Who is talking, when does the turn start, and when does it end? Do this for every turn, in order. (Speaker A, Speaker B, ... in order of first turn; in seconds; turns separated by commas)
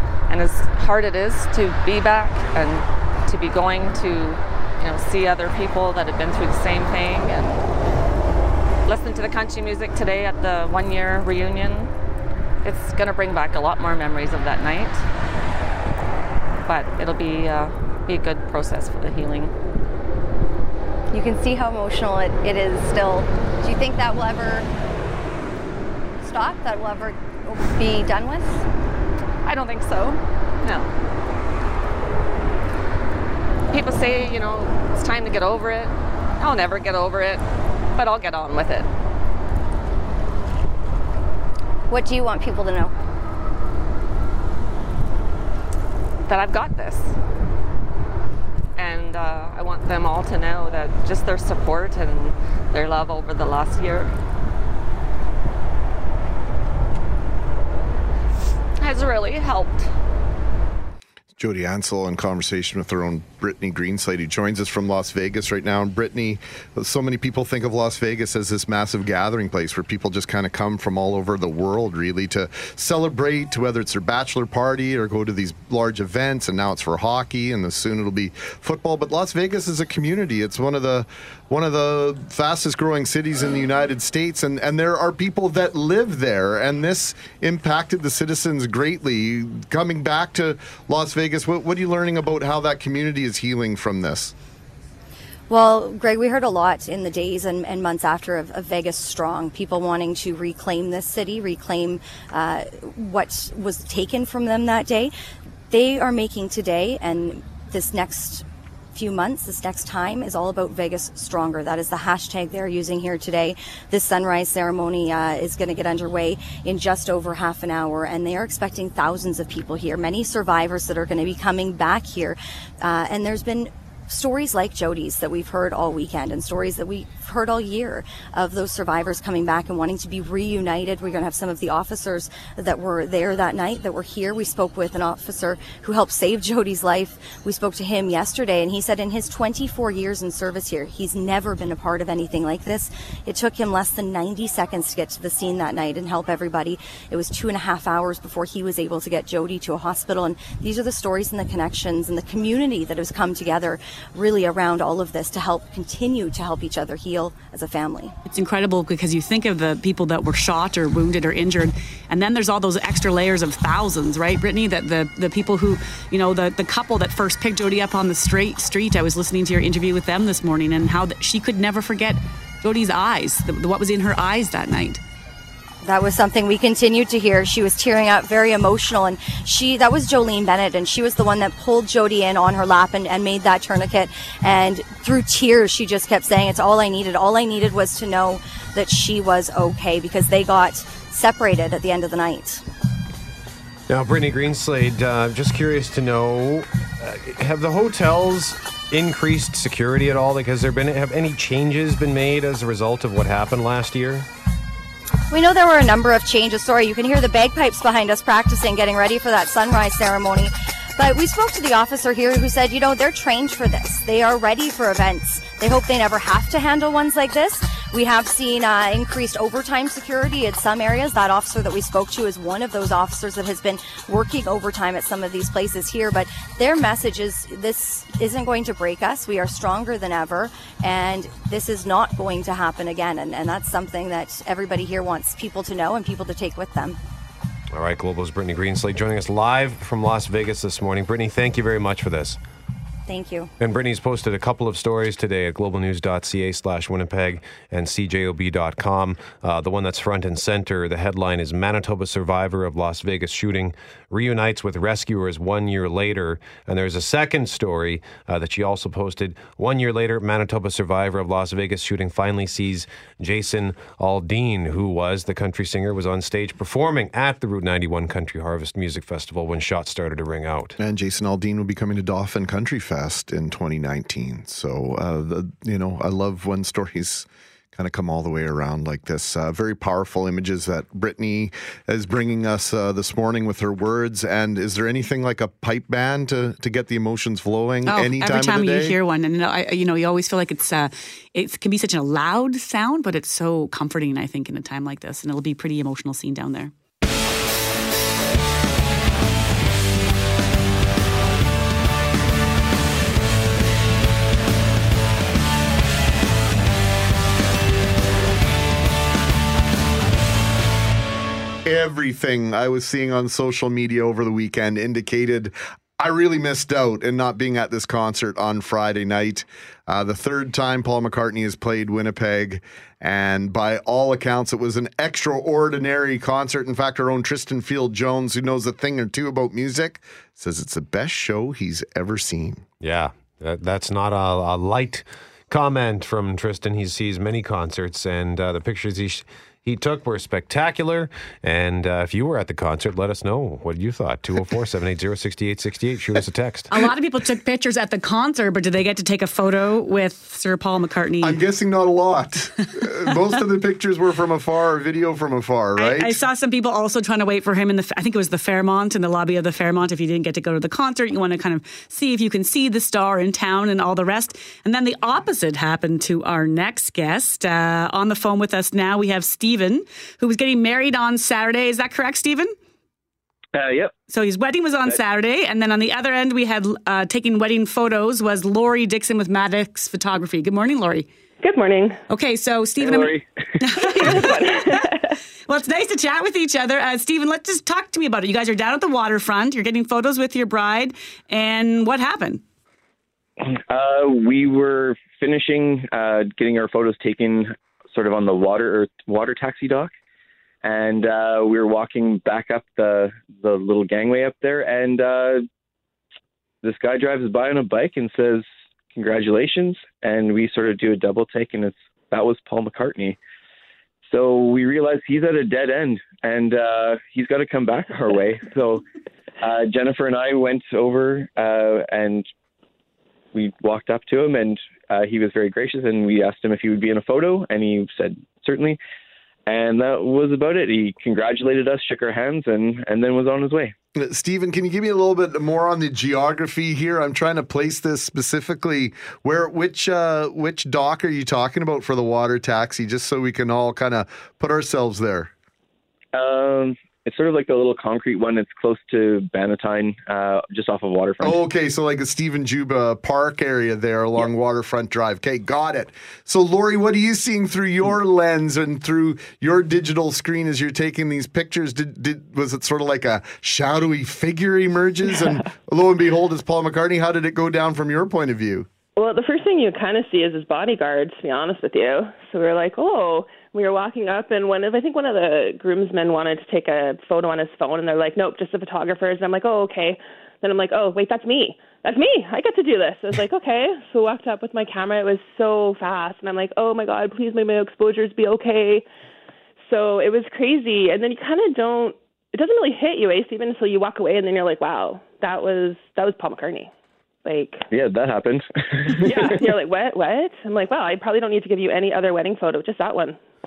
Speaker A: 0.3-7.6, Speaker A: 8.8-11.9, Speaker A: 12.6-15.0, Speaker A: 16.6-19.5, Speaker B: 21.1-24.6, Speaker B: 26.2-28.5, Speaker A: 29.4-30.9, Speaker A: 33.7-37.4, Speaker A: 37.9-38.9, Speaker B: 41.9-42.9, Speaker A: 46.2-47.1, Speaker A: 48.8-54.1, Speaker A: 58.8-59.9, Speaker C: 61.4-94.3, Speaker B: 95.5-105.1, Speaker B: 105.7-158.1, Speaker D: 158.3-175.0, Speaker B: 175.8-192.6, Speaker E: 193.9-204.2, Speaker B: 205.3-237.0, Speaker E: 237.7-242.4, Speaker B: 243.1-243.5, Speaker E: 243.6-270.8, Speaker C: 270.8-288.9, Speaker D: 287.9-296.7, Speaker C: 311.6-332.6, Speaker E: 332.8-346.7, Speaker D: 346.7-351.4, Speaker C: 351.2-356.2, Speaker D: 355.8-372.5, Speaker F: 373.5-373.9, Speaker D: 374.1-381.1, Speaker G: 381.4-382.0, Speaker D: 382.1-392.4, Speaker F: 382.8-383.2, Speaker G: 383.9-385.1, Speaker F: 393.4-399.9, Speaker F: 400.6-405.4, Speaker F: 406.6-413.2, Speaker F: 414.1-418.8, Speaker F: 419.4-422.3, Speaker F: 423.3-428.8, Speaker F: 429.5-433.7, Speaker C: 433.9-445.3, Speaker F: 446.1-451.4, Speaker C: 451.2-468.7, Speaker G: 468.9-488.9, Speaker G: 489.6-496.7, Speaker G: 497.2-497.6, Speaker F: 497.7-499.4, Speaker G: 498.9-503.2